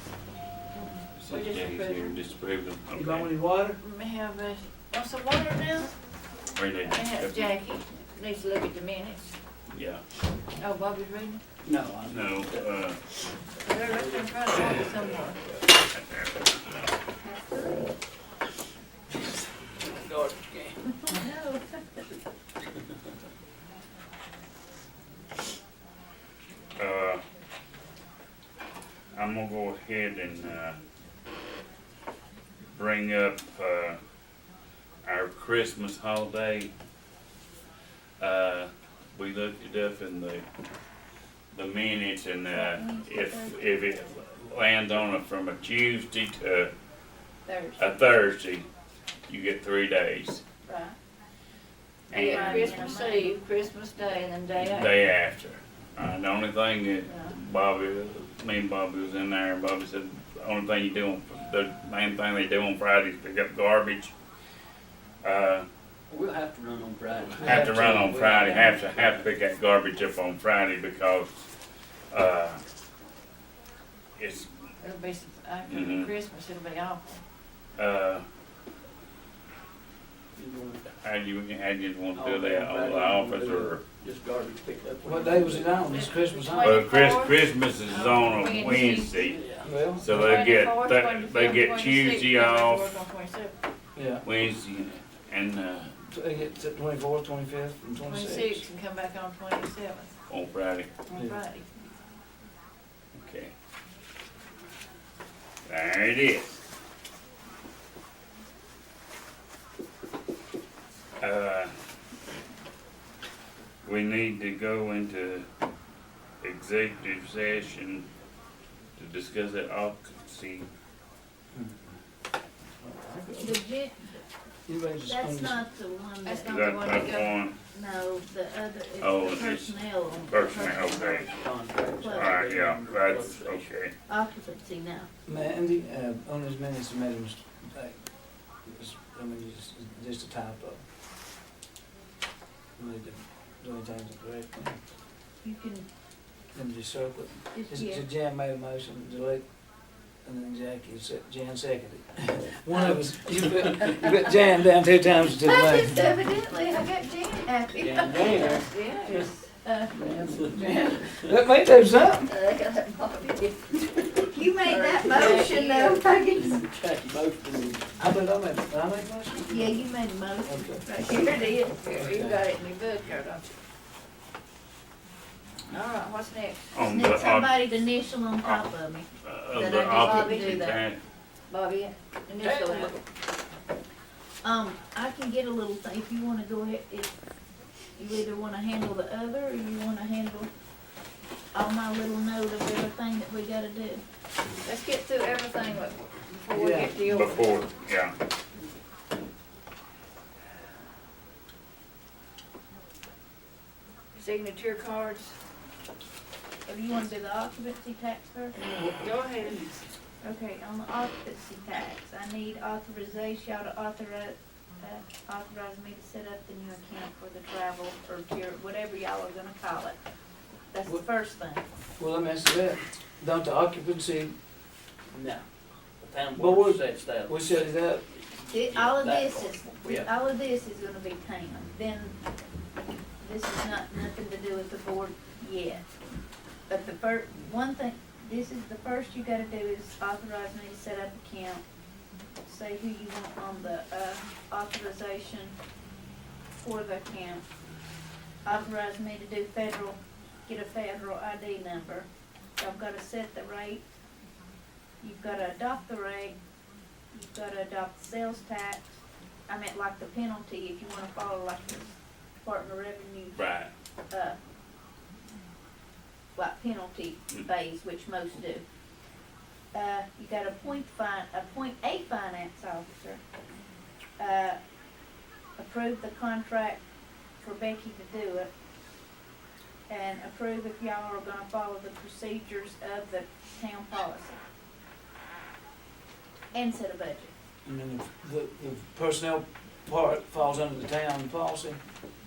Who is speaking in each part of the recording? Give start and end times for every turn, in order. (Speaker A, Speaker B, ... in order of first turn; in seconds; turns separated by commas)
Speaker A: 0.7-2.2, Speaker B: 1.2-3.3, Speaker C: 2.9-3.8, Speaker A: 3.8-5.9, Speaker B: 6.5-7.5, Speaker A: 6.8-9.3, Speaker B: 9.7-10.0, Speaker A: 10.6-11.4, Speaker D: 11.6-12.8, Speaker B: 12.1-13.0, Speaker A: 13.6-15.4, Speaker D: 13.8-15.6, Speaker B: 15.8-16.9, Speaker E: 17.2-17.9, Speaker D: 19.8-20.8, Speaker E: 21.1-21.6, Speaker B: 26.8-27.2, Speaker B: 29.1-30.8, Speaker B: 32.7-34.0, Speaker B: 35.0-36.7, Speaker B: 38.2-40.5, Speaker B: 41.5-46.7, Speaker E: 42.5-44.0, Speaker E: 47.5-48.1, Speaker B: 47.8-48.6, Speaker B: 49.3-50.4, Speaker E: 50.7-51.0, Speaker B: 52.1-52.9, Speaker A: 52.1-55.1, Speaker E: 52.1-53.4, Speaker B: 54.5-64.1, Speaker B: 65.2-65.7, Speaker D: 66.1-69.2, Speaker C: 67.4-68.7, Speaker B: 67.4-71.5, Speaker B: 72.1-72.6, Speaker B: 74.2-74.5, Speaker A: 74.8-77.2, Speaker B: 75.7-76.1, Speaker B: 77.8-78.2, Speaker D: 80.3-80.9, Speaker B: 81.0-83.8, Speaker D: 82.1-86.0, Speaker C: 85.0-86.8, Speaker A: 85.9-89.4, Speaker B: 86.5-92.9, Speaker D: 89.1-89.8, Speaker C: 89.6-90.5, Speaker A: 90.1-93.5, Speaker C: 93.9-94.2, Speaker B: 94.2-96.0, Speaker C: 96.1-98.6, Speaker A: 98.0-100.2, Speaker B: 100.3-100.9, Speaker A: 101.1-101.9, Speaker B: 103.1-103.5, Speaker B: 105.7-106.6, Speaker B: 111.2-111.7, Speaker B: 113.8-115.4, Speaker B: 116.4-118.1, Speaker B: 119.0-120.7, Speaker C: 121.5-122.0, Speaker C: 122.8-123.6, Speaker E: 123.4-124.2, Speaker C: 124.7-125.6, Speaker E: 125.0-126.7, Speaker A: 126.2-127.3, Speaker B: 126.5-127.5, Speaker E: 127.7-130.8, Speaker B: 129.0-129.7, Speaker B: 130.3-131.3, Speaker D: 130.5-133.7, Speaker E: 132.0-132.4, Speaker B: 132.1-133.9, Speaker E: 134.1-135.1, Speaker C: 135.3-138.0, Speaker C: 138.7-140.8, Speaker C: 142.8-144.8, Speaker E: 145.4-145.9, Speaker C: 146.5-149.4, Speaker E: 147.5-148.0, Speaker C: 150.2-156.1, Speaker E: 155.4-158.6, Speaker D: 157.7-159.2, Speaker A: 158.1-159.4, Speaker E: 159.6-160.0, Speaker D: 159.9-160.8, Speaker E: 160.5-160.9, Speaker C: 160.5-162.3, Speaker A: 162.2-166.1, Speaker E: 164.3-166.7, Speaker D: 165.2-165.5, Speaker D: 166.3-167.9, Speaker C: 168.0-169.8, Speaker E: 169.5-172.0, Speaker C: 170.4-170.8, Speaker A: 171.8-173.5, Speaker C: 171.9-172.4, Speaker A: 175.7-176.6, Speaker B: 176.7-177.5, Speaker E: 176.8-180.8, Speaker B: 178.4-178.7, Speaker B: 179.2-181.0, Speaker A: 180.0-180.8, Speaker A: 181.5-182.9, Speaker E: 184.4-187.1, Speaker E: 187.9-190.5, Speaker E: 191.5-194.0, Speaker A: 194.6-197.5, Speaker C: 196.5-196.9, Speaker B: 197.0-198.1, Speaker A: 204.2-205.3, Speaker E: 206.7-208.6, Speaker D: 208.7-209.6, Speaker A: 209.0-209.7, Speaker E: 210.2-220.0, Speaker E: 220.7-221.6, Speaker C: 222.0-224.3, Speaker D: 225.1-225.4, Speaker D: 226.0-230.1, Speaker C: 226.3-228.0, Speaker E: 228.4-232.2, Speaker E: 233.2-235.8, Speaker E: 236.7-241.6, Speaker E: 242.4-245.5, Speaker E: 246.6-247.4, Speaker E: 248.4-252.1, Speaker E: 252.6-253.8, Speaker E: 255.0-256.4, Speaker E: 257.1-263.4, Speaker B: 263.3-263.7, Speaker E: 264.1-264.4, Speaker E: 266.3-268.6, Speaker E: 269.7-273.2, Speaker E: 274.2-274.6, Speaker E: 275.6-276.8, Speaker E: 277.4-278.5, Speaker E: 279.9-284.4, Speaker E: 286.5-287.3, Speaker C: 287.6-291.8